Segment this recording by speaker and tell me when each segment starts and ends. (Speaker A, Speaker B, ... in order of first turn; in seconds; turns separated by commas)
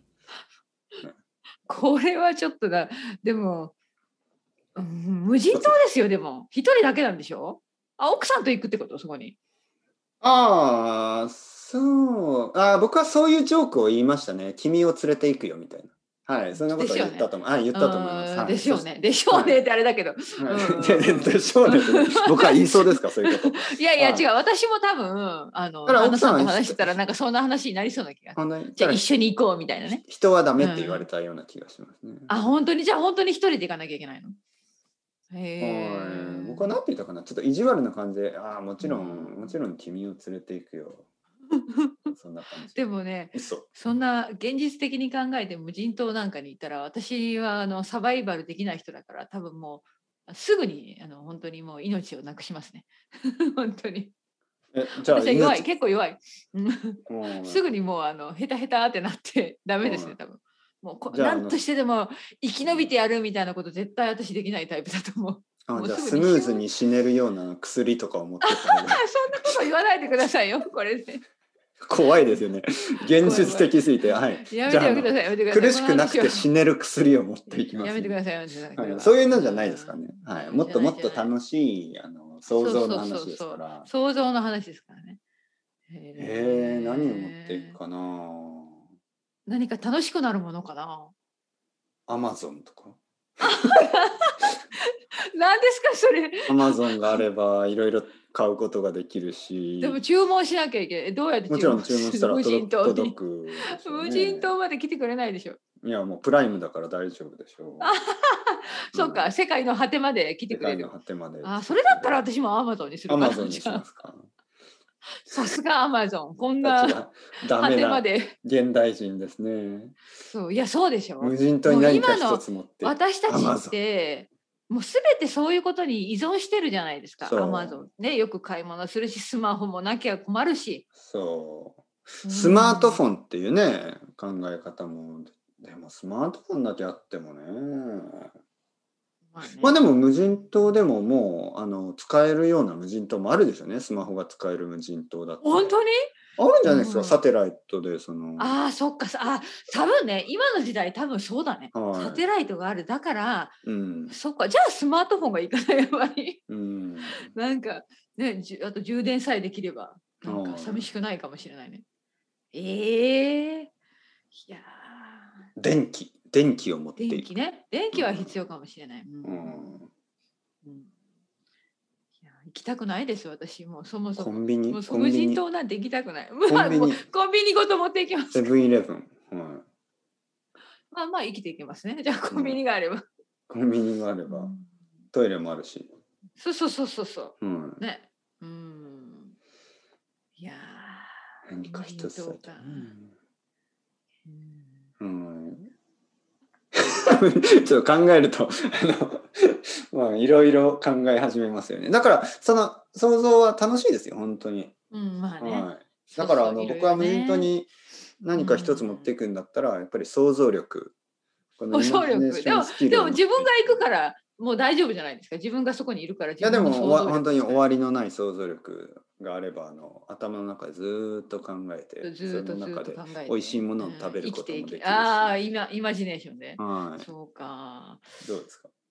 Speaker A: 1.7-3.7, Speaker A: 4.8-9.3, Speaker B: 5.5-5.8, Speaker B: 10.2-19.6, Speaker A: 16.6-30.0, Speaker B: 20.4-24.3, Speaker B: 25.9-27.0, Speaker B: 28.4-29.0, Speaker B: 30.0-32.3, Speaker A: 30.6-31.1, Speaker A: 32.3-34.4, Speaker A: 35.3-36.7, Speaker B: 35.6-41.1, Speaker A: 38.8-39.6, Speaker A: 41.5-42.1, Speaker B: 42.1-43.7, Speaker A: 42.7-54.1, Speaker B: 54.7-55.7, Speaker A: 55.0-66.7, Speaker B: 57.1-57.6, Speaker B: 59.8-60.2, Speaker B: 61.1-61.6, Speaker B: 65.7-69.6, Speaker A: 68.4-71.2, Speaker B: 71.8-78.2, Speaker A: 73.1-76.5, Speaker A: 77.8-81.3, Speaker B: 78.8-83.9, Speaker A: 82.5-85.2, Speaker A: 85.9-87.8, Speaker B: 86.2-88.8, Speaker A: 89.5-91.1, Speaker B: 92.1-93.0, Speaker A: 93.4-94.5, Speaker A: 95.3-97.2, Speaker B: 96.5-100.0, Speaker A: 99.8-105.6, Speaker B: 101.5-104.5, Speaker B: 105.8-108.0, Speaker A: 107.8-110.9, Speaker B: 108.9-109.3, Speaker B: 110.5-112.2, Speaker A: 111.4-113.8, Speaker B: 113.1-114.3, Speaker A: 115.2-118.3, Speaker B: 116.6-120.0, Speaker A: 120.2-130.9, Speaker B: 121.2-123.8, Speaker B: 127.2-127.8, Speaker B: 131.0-138.3, Speaker A: 132.2-133.0, Speaker A: 139.3-140.8, Speaker B: 139.6-145.7, Speaker A: 145.4-145.9, Speaker B: 146.4-148.6, Speaker A: 146.7-147.2, Speaker A: 148.4-153.6, Speaker B: 151.7-152.2, Speaker B: 153.6-154.2, Speaker A: 154.1-156.4, Speaker B: 156.5-157.3, Speaker A: 157.1-161.8, Speaker B: 160.2-160.9, Speaker A: 162.5-163.7, Speaker A: 164.3-165.5, Speaker B: 165.6-167.3, Speaker A: 167.0-169.8, Speaker B: 167.9-168.3, Speaker B: 169.2-169.9, Speaker A: 170.6-170.9, Speaker A: 172.3-178.5, Speaker B: 174.2-175.4, Speaker B: 176.5-177.0, Speaker B: 178.3-179.6, Speaker A: 180.9-183.0, Speaker B: 182.3-182.6, Speaker B: 183.5-184.5, Speaker A: 184.3-184.7, Speaker B: 185.1-185.9, Speaker A: 186.4-189.3, Speaker B: 187.4-187.8, Speaker A: 190.4-192.9, Speaker B: 191.5-193.1, Speaker A: 194.3-194.8, Speaker B: 195.0-195.7, Speaker B: 196.7-204.7, Speaker A: 204.9-207.5, Speaker B: 205.4-207.7, Speaker B: 208.2-210.9, Speaker A: 208.3-209.1, Speaker B: 211.6-213.8, Speaker A: 211.7-217.7, Speaker B: 216.4-225.4, Speaker A: 222.0-228.1, Speaker B: 226.6-227.1, Speaker B: 228.2-228.7